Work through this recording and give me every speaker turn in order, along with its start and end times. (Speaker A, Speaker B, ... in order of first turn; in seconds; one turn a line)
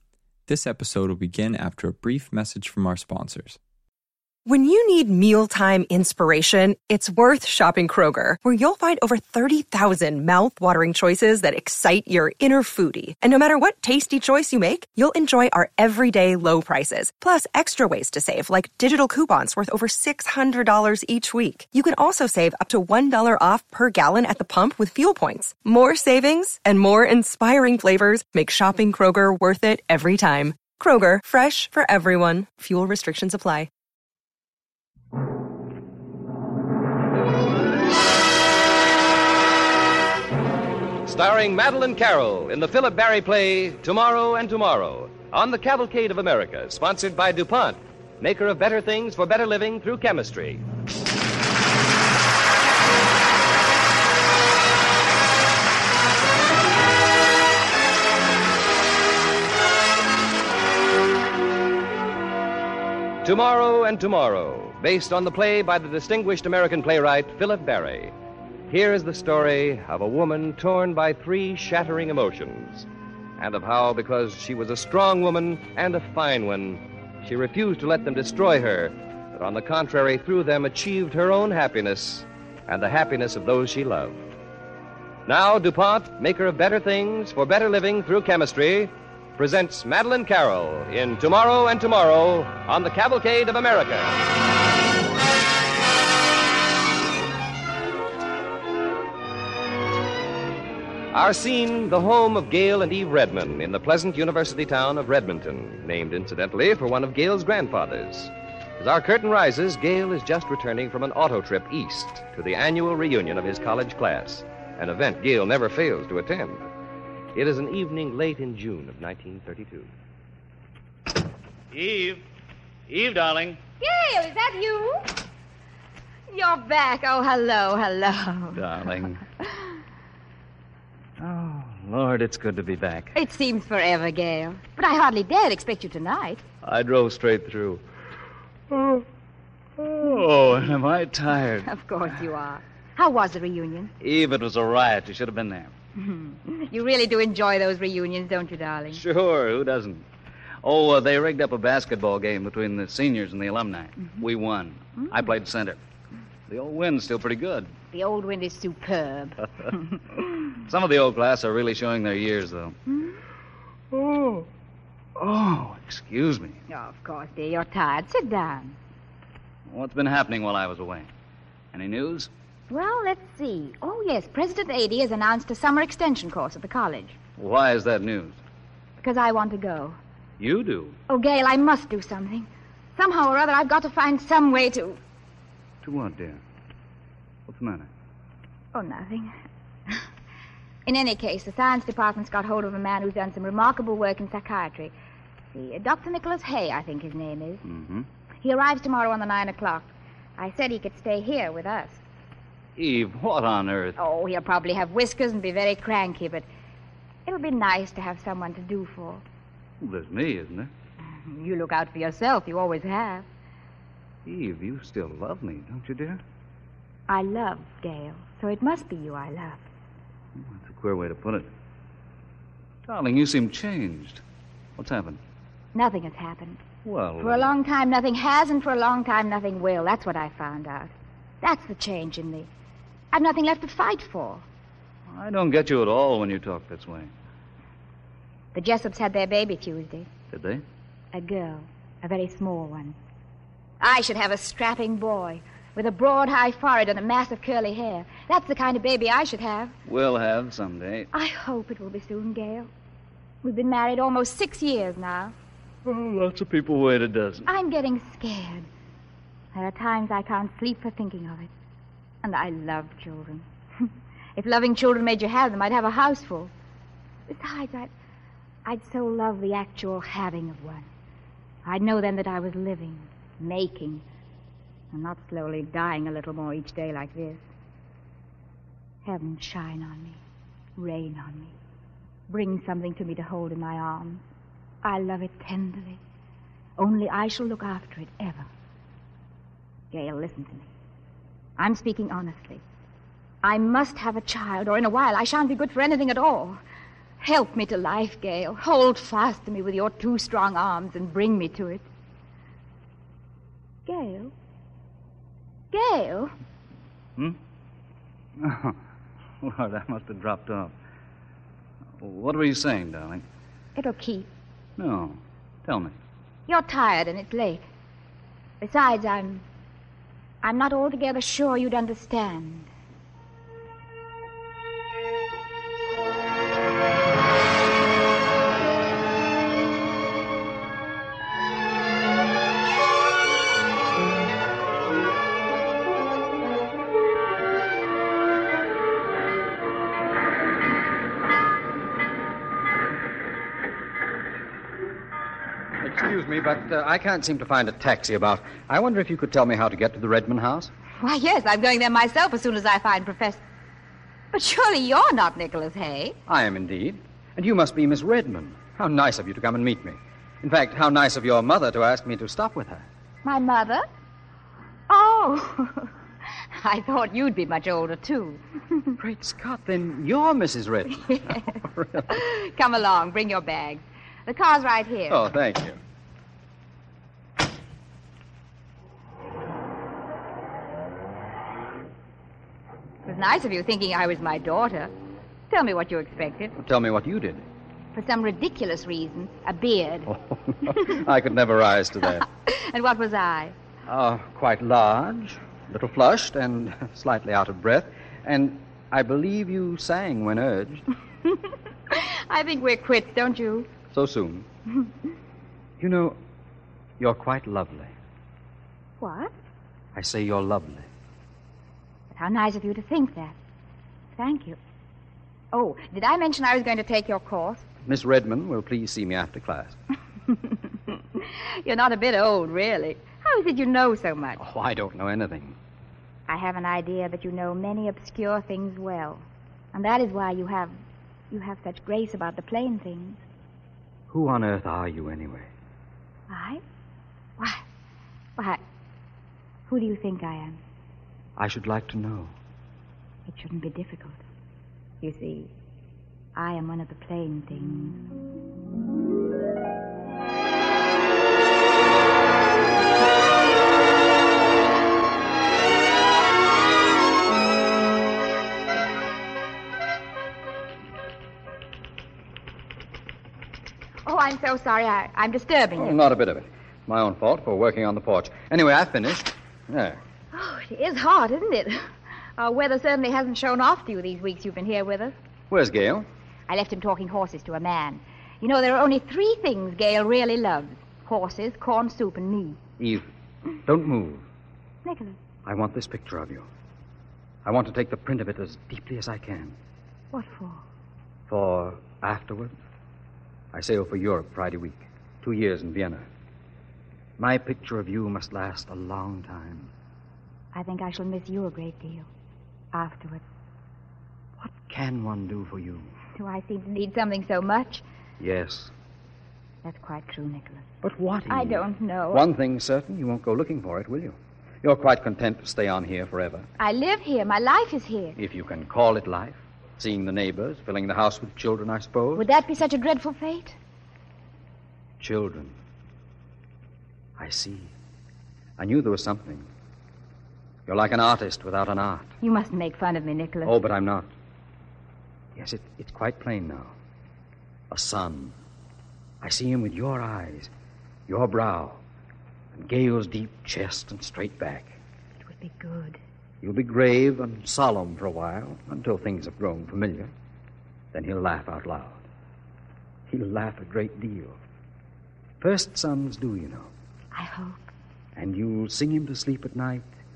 Speaker A: 0.5-3.6
Speaker B: 4.5-33.7
Speaker C: 41.1-50.6
Speaker C: 63.2-68.1
Speaker C: 68.7-72.9
Speaker C: 73.4-84.2
Speaker C: 85.3-94.2
Speaker C: 101.1-116.7
Speaker C: 117.3-119.9
Speaker D: 121.7-122.3
Speaker D: 122.9-123.6
Speaker E: 123.8-125.1
Speaker E: 126.3-128.6
Speaker D: 128.5-129.2
Speaker D: 131.2-133.1
Speaker E: 133.2-136.4
Speaker D: 136.6-137.8
Speaker D: 138.7-139.1
Speaker D: 139.8-141.7
Speaker E: 141.7-143.9
Speaker D: 144.0-145.7
Speaker E: 146.0-149.0
Speaker D: 148.9-150.1
Speaker D: 150.6-155.8
Speaker D: 156.5-157.7
Speaker E: 157.9-159.8
Speaker D: 160.7-162.8
Speaker D: 163.9-164.5
Speaker D: 165.2-166.6
Speaker E: 166.7-168.8
Speaker D: 169.7-171.1
Speaker D: 171.7-172.3
Speaker E: 172.7-177.2
Speaker D: 177.4-178.4
Speaker E: 179.0-180.0
Speaker D: 180.4-181.0
Speaker E: 181.1-185.0
Speaker D: 185.8-186.4
Speaker D: 187.5-187.9
Speaker E: 188.7-189.3
Speaker E: 190.9-194.9
Speaker E: 195.5-197.6
Speaker D: 197.6-198.1
Speaker E: 198.4-202.0
Speaker D: 202.8-204.0
Speaker E: 204.0-206.5
Speaker E: 207.3-209.2
Speaker D: 209.8-210.7
Speaker E: 211.2-213.3
Speaker D: 214.3-216.2
Speaker E: 217.1-219.7
Speaker D: 220.4-221.5
Speaker D: 222.9-224.2
Speaker D: 224.8-225.2
Speaker E: 225.8-226.6
Speaker D: 226.8-227.5
Speaker E: 227.2-232.5
Speaker E: 233.1-234.4
Speaker D: 235.1-237.1
Speaker E: 238.5-240.1
Speaker D: 240.3-240.6
Speaker E: 241.1-243.0
Speaker E: 243.8-249.8
Speaker D: 249.9-251.1
Speaker E: 251.1-252.7
Speaker E: 253.4-255.3
Speaker D: 255.8-257.5
Speaker E: 257.5-258.7
Speaker E: 259.5-261.5
Speaker E: 262.2-266.5
Speaker E: 267.3-267.9
Speaker E: 268.6-270.9
Speaker E: 271.6-274.1
Speaker E: 274.9-277.4
Speaker E: 279.1-280.2
Speaker E: 280.8-281.5
Speaker E: 282.3-284.2
Speaker E: 284.8-286.0
Speaker E: 286.8-288.5
Speaker E: 289.9-290.7
Speaker E: 291.6-292.6
Speaker E: 293.4-296.6
Speaker E: 297.2-301.9
Speaker E: 303.9-304.3
Speaker E: 305.7-306.3
Speaker D: 308.4-308.8
Speaker D: 309.4-310.7
Speaker D: 312.0-313.2
Speaker E: 313.8-314.3
Speaker D: 314.8-316.0
Speaker E: 316.5-317.7
Speaker E: 318.6-319.4
Speaker E: 320.4-322.7
Speaker F: 345.8-350.7
Speaker E: 351.0-353.4
Speaker E: 354.3-356.2
Speaker F: 356.3-362.9
Speaker E: 363.2-363.9
Speaker E: 364.9-365.9
Speaker E: 366.6-368.9
Speaker F: 369.0-372.1
Speaker E: 371.1-371.4
Speaker E: 372.1-375.2
Speaker F: 375.1-375.8
Speaker E: 383.1-384.9
Speaker E: 385.5-386.6
Speaker F: 386.6-387.4
Speaker E: 387.9-390.1
Speaker F: 390.1-392.3
Speaker E: 392.1-393.5
Speaker F: 393.9-400.9
Speaker E: 401.9-403.7
Speaker F: 403.9-404.5
Speaker F: 405.8-406.2
Speaker F: 407.0-407.9
Speaker E: 409.0-409.3
Speaker F: 409.9-410.9
Speaker E: 412.1-413.4
Speaker E: 414.2-414.6
Speaker E: 415.5-417.7
Speaker F: 417.9-419.8
Speaker E: 420.3-424.4
Speaker F: 424.4-425.6
Speaker E: 426.3-430.8
Speaker E: 431.3-433.2
Speaker F: 434.1-435.5
Speaker E: 436.3-436.6
Speaker E: 437.4-437.6
Speaker E: 439.7-440.6
Speaker F: 441.4-442.4
Speaker E: 443.3-444.2
Speaker E: 445.0-445.5
Speaker E: 446.4-448.0
Speaker E: 464.1-466.0
Speaker F: 465.8-470.0
Speaker E: 470.3-471.9
Speaker E: 472.4-475.2
Speaker F: 475.5-476.1
Speaker E: 476.5-482.6
Speaker F: 482.8-483.1
Speaker F: 483.6-484.3
Speaker E: 484.9-485.2
Speaker F: 485.4-486.5
Speaker F: 487.4-489.6
Speaker E: 490.1-490.6
Speaker F: 491.3-492.6
Speaker F: 493.5-496.1
Speaker F: 497.2-499.7
Speaker E: 500.5-502.1
Speaker E: 502.7-503.2
Speaker F: 504.4-505.9
Speaker E: 506.2-507.8
Speaker F: 508.2-508.7
Speaker E: 509.6-510.6
Speaker F: 510.8-516.5
Speaker E: 511.3-512.2
Speaker E: 516.6-518.2
Speaker F: 518.2-522.2
Speaker E: 522.2-523.6
Speaker F: 525.0-525.6
Speaker F: 527.2-527.7
Speaker F: 528.6-529.5
Speaker F: 530.7-532.1
Speaker E: 532.2-533.5
Speaker F: 533.5-534.1
Speaker F: 535.4-536.8
Speaker F: 537.7-538.4
Speaker F: 539.2-540.5
Speaker F: 541.1-541.8
Speaker F: 542.5-544.8
Speaker E: 545.3-546.0
Speaker F: 546.4-550.1
Speaker F: 550.9-552.0
Speaker F: 553.1-554.4
Speaker F: 555.4-556.7
Speaker E: 557.1-557.7
Speaker F: 558.1-559.9